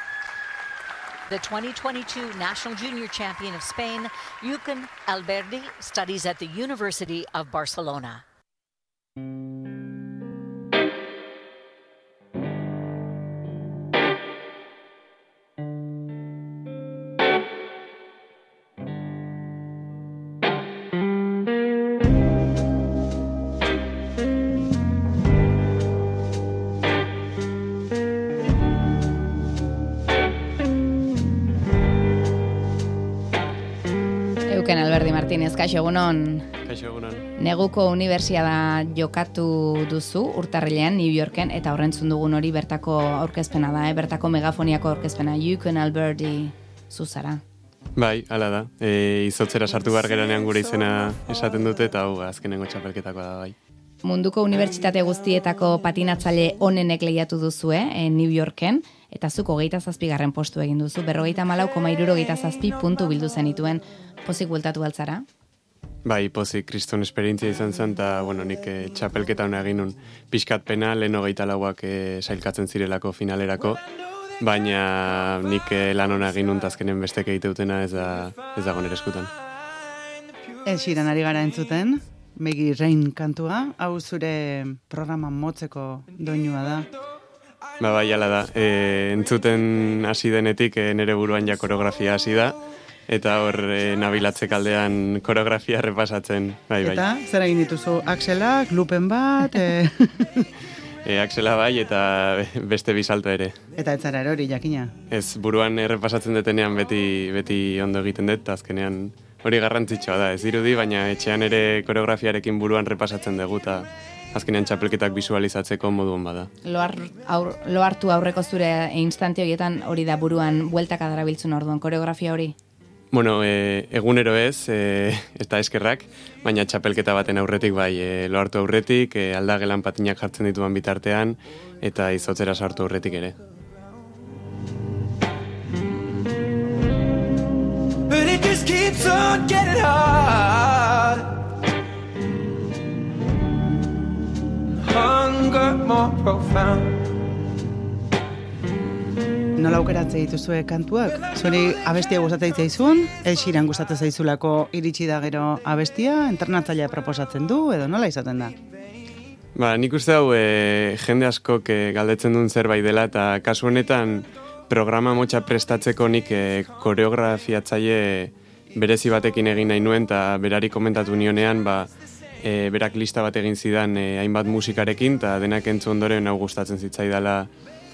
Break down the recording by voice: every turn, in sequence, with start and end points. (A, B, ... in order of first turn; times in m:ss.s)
0:01.3-0:08.2 A
0:34.5-0:36.5 B
0:36.6-0:37.3 C
0:37.4-0:47.4 B
0:48.0-0:53.6 C
0:54.0-1:05.2 B
1:06.0-1:13.8 C
1:14.4-1:19.3 C
1:20.6-1:26.9 D
1:27.8-1:37.0 C
1:36.8-1:40.5 D
1:41.0-1:43.6 C
1:43.8-1:44.9 D
1:45.1-1:56.5 C
1:56.6-2:02.6 B
2:03.1-2:13.4 C
2:18.1-2:21.4 E
2:24.8-2:27.1 E
2:29.6-2:38.6 D
2:39.5-2:51.9 C
2:52.4-2:57.5 C